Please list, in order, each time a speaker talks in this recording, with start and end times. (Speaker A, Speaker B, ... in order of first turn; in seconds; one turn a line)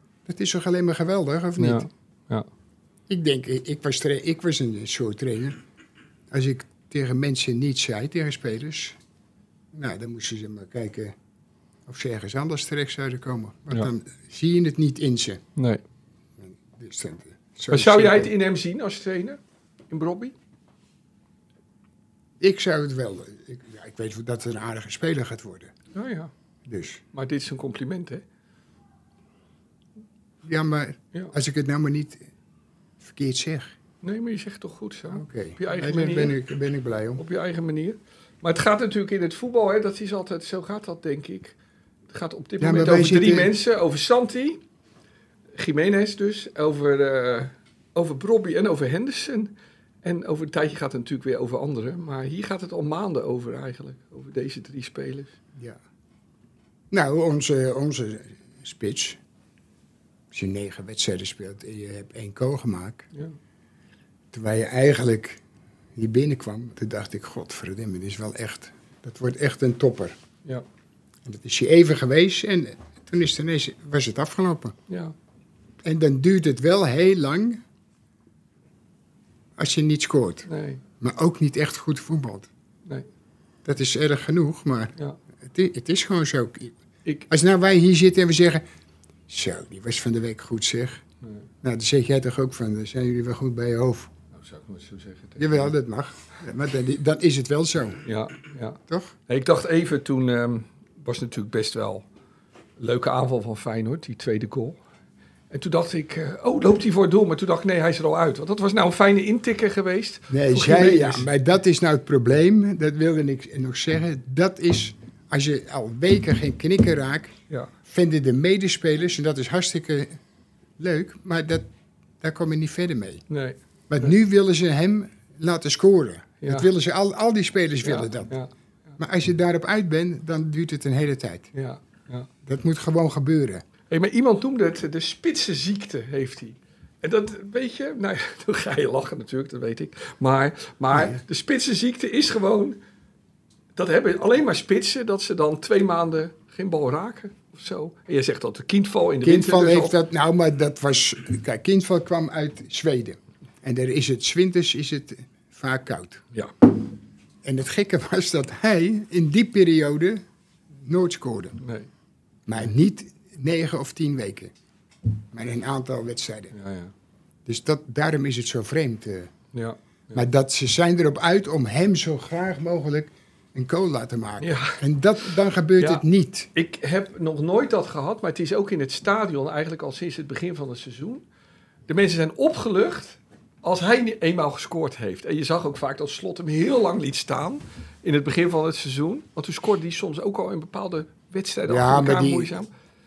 Speaker A: 0.2-1.9
Speaker B: 1.6-2.5
Speaker A: 3.1-5.6
Speaker A: 6.3-9.0
Speaker A: 9.7-11.1
Speaker A: 11.9-15.4
Speaker A: 16.4-18.3
Speaker B: 17.7-19.4
Speaker B: 19.9-20.3
Speaker A: 22.4-25.7
Speaker B: 25.9-26.3
Speaker A: 26.7-27.0
Speaker B: 27.1-28.2
Speaker A: 30.4-32.2
Speaker A: 33.0-33.7
Speaker B: 34.0-36.3
Speaker A: 35.1-37.2
Speaker B: 37.2-41.5
Speaker B: 42.1-44.6
Speaker A: 42.6-43.5
Speaker B: 45.5-55.3
Speaker A: 56.9-59.2
Speaker A: 60.3-63.0
Speaker A: 64.3-65.4
Speaker A: 66.0-70.2
Speaker A: 71.2-74.8
Speaker B: 74.9-75.1
Speaker A: 75.8-77.6
Speaker A: 79.6-80.5
Speaker B: 80.5-80.8
Speaker A: 81.0-82.5
Speaker A: 83.6-84.9
Speaker A: 85.5-86.7
Speaker A: 87.3-88.6
Speaker A: 89.3-91.0
Speaker A: 91.6-94.1
Speaker B: 94.3-95.7
Speaker A: 95.4-98.0
Speaker B: 98.0-102.0
Speaker A: 98.9-99.1
Speaker B: 102.8-104.8
Speaker B: 105.5-111.3
Speaker A: 110.3-120.2
Speaker A: 120.8-121.7
Speaker A: 122.2-123.2
Speaker B: 123.3-124.1
Speaker A: 123.9-128.3
Speaker B: 126.4-126.7
Speaker B: 127.8-128.5
Speaker A: 129.0-131.5
Speaker B: 131.5-132.3
Speaker A: 132.4-133.6
Speaker B: 133.9-142.8
Speaker A: 140.9-141.2
Speaker B: 143.8-149.9
Speaker A: 149.2-156.2
Speaker A: 157.4-160.2
Speaker A: 160.8-161.6
Speaker B: 161.6-161.9
Speaker A: 162.5-164.5
Speaker A: 165.3-166.5
Speaker B: 166.5-166.9
Speaker A: 167.4-169.3
Speaker B: 169.5-170.2
Speaker A: 170.1-176.5
Speaker B: 174.4-174.8
Speaker B: 175.8-176.0
Speaker B: 176.5-181.2
Speaker B: 181.9-192.7
Speaker A: 191.7-192.6